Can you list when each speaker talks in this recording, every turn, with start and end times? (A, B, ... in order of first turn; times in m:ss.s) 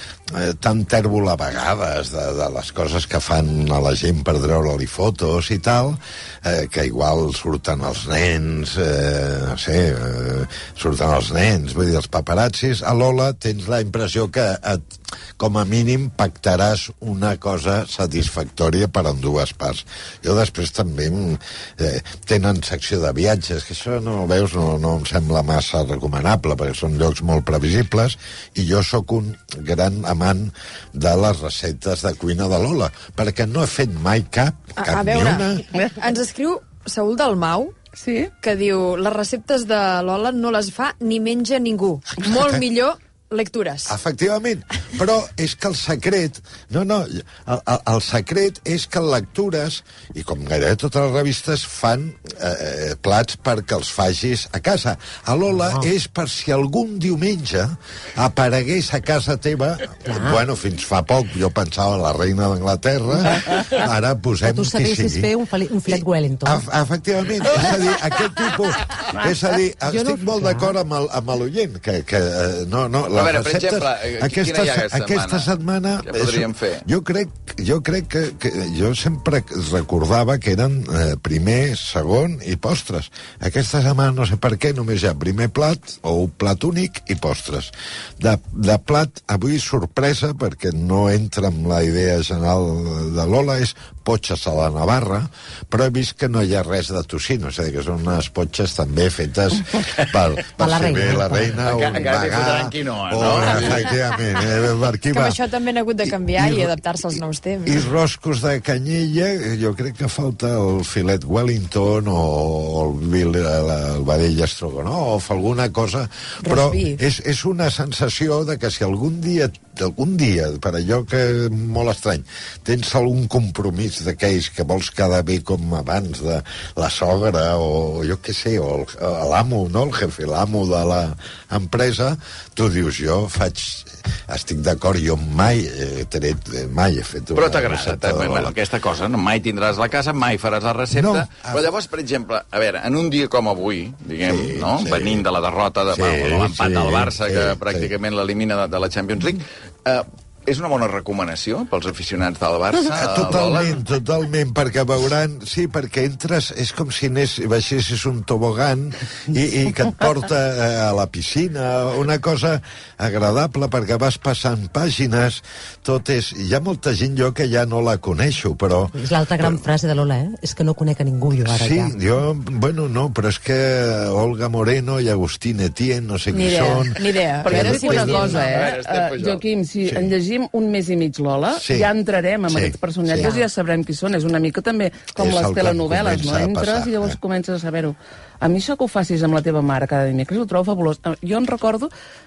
0:00.3-0:35.6 A
0:34.8-0:37.8 B
0:37.9-0:38.3 C
0:38.4-0:43.9 B
0:42.4-0:42.6 A
0:43.9-1:05.3 A
1:00.1-1:00.4 D
1:04.4-1:06.6 D
1:05.9-1:45.4 A
1:09.9-1:10.8 D
1:13.2-1:15.5 E
1:16.0-1:16.8 E
1:40.6-1:41.6 D
1:41.6-1:44.0 E
1:45.1-1:47.8 B
1:46.1-2:18.6 A
1:56.4-1:57.0 B
2:17.4-2:33.8 E
2:20.9-2:21.7 A
2:24.2-2:25.2 A
2:25.9-2:27.9 A
2:32.9-2:49.6 A
2:49.0-2:51.9 D
2:51.4-2:58.5 A
2:56.3-2:58.6 B
2:57.4-3:11.9 C
2:58.2-2:59.4 E
2:59.9-3:00.1 A
3:01.6-3:01.9 A
3:02.4-3:03.4 A
3:05.2-3:07.2 A